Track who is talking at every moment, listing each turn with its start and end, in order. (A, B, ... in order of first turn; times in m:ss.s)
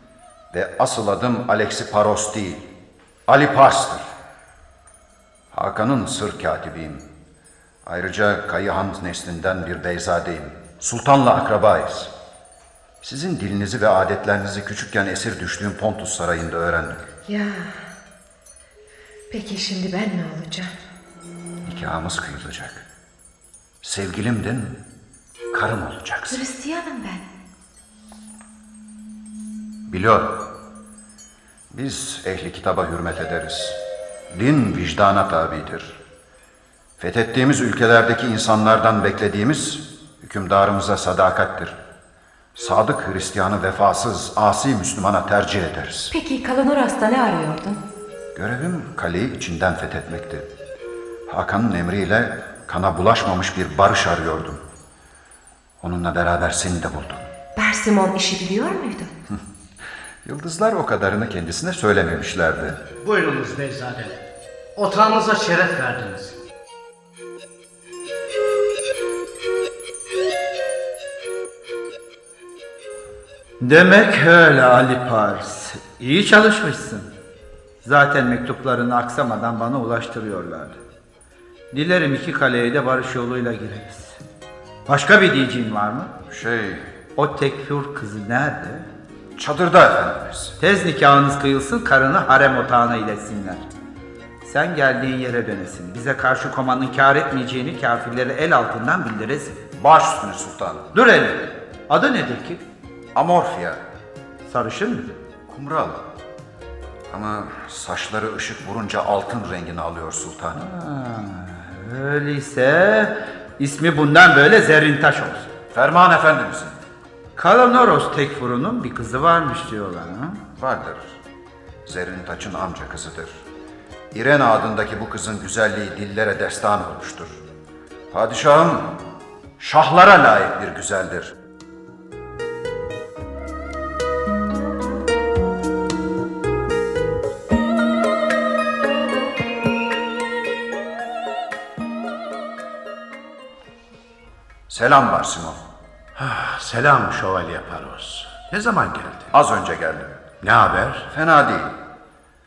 0:00.5-0:02.7 A
0:03.3-0:04.1 A
0:05.5-0:07.1 A
0:07.8-0:12.1 A
0:13.0-0:17.0 A
0:17.2-0:17.9 B
0:19.3-0:20.7 B
0:21.6-0:22.8 A
0:23.8-0:24.8 A
0:25.5-0:26.4 A
0:26.3-0:27.2 B
0:29.9-0:30.5 A
0:31.7-0:33.8 A
0:34.3-0:36.0 A
0:37.0-0:41.8 A
0:42.5-0:46.1 A
0:46.1-0:47.8 B
0:48.3-0:50.5 A
0:51.3-0:54.6 A
0:55.8-0:57.3 A
0:57.6-0:59.1 B
1:00.2-1:02.8 A
1:03.0-1:04.1 C
1:04.8-1:06.3 C
1:13.6-1:17.1 D
1:17.8-1:20.8 D
1:21.7-1:24.2 D
1:24.9-1:26.1 D
1:26.3-1:26.9 A
1:27.2-1:28.8 D
1:29.4-1:30.6 A
1:30.6-1:33.6 D
1:34.4-1:39.6 D
1:39.8-1:40.9 A
1:40.9-1:42.6 D
1:43.1-1:43.8 A
1:44.4-1:45.2 D
1:45.5-1:46.1 A
1:47.1-1:50.7 A
1:50.6-1:55.5 D
1:55.6-1:56.8 A
1:57.4-2:00.4 D
2:00.5-2:01.2 A
2:01.8-2:03.4 A
2:04.1-2:07.4 A
2:08.1-2:09.0 A
2:09.6-2:11.3 A
2:24.7-2:25.6 A
2:26.2-2:29.3 E
2:29.3-2:30.2 A
2:30.4-2:31.1 E
2:31.1-2:31.7 A